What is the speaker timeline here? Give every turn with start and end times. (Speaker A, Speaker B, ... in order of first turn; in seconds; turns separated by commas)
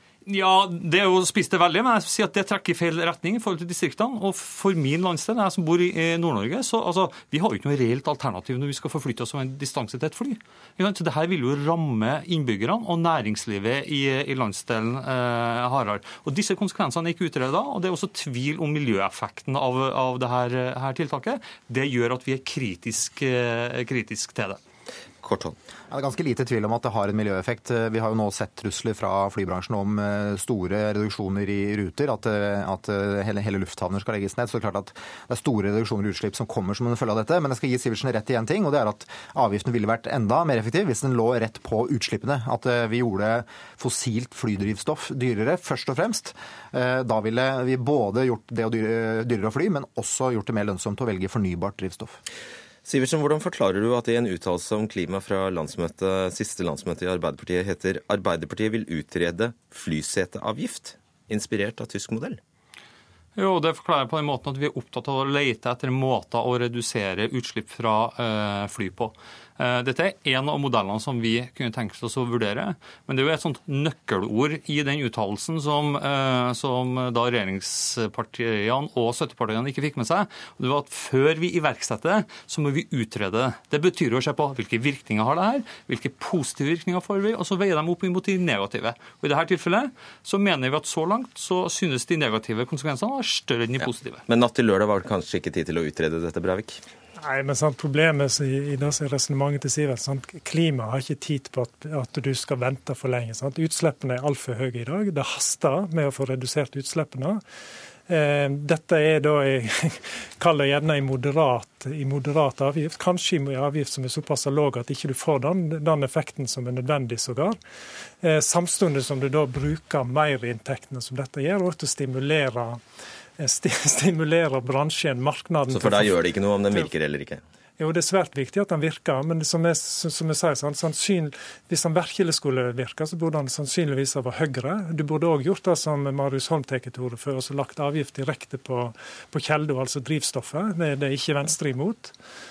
Speaker A: 0.2-24.6, Speaker B: 25.2-25.6, Speaker C: 25.9-52.2, Speaker B: 52.9-62.4, Speaker A: 63.4-94.2, Speaker B: 93.8-96.8, Speaker D: 97.2-107.4, Speaker D: 108.1-117.6, Speaker D: 118.2-122.8, Speaker D: 123.4-126.2, Speaker B: 125.7-127.4, Speaker D: 127.8-142.1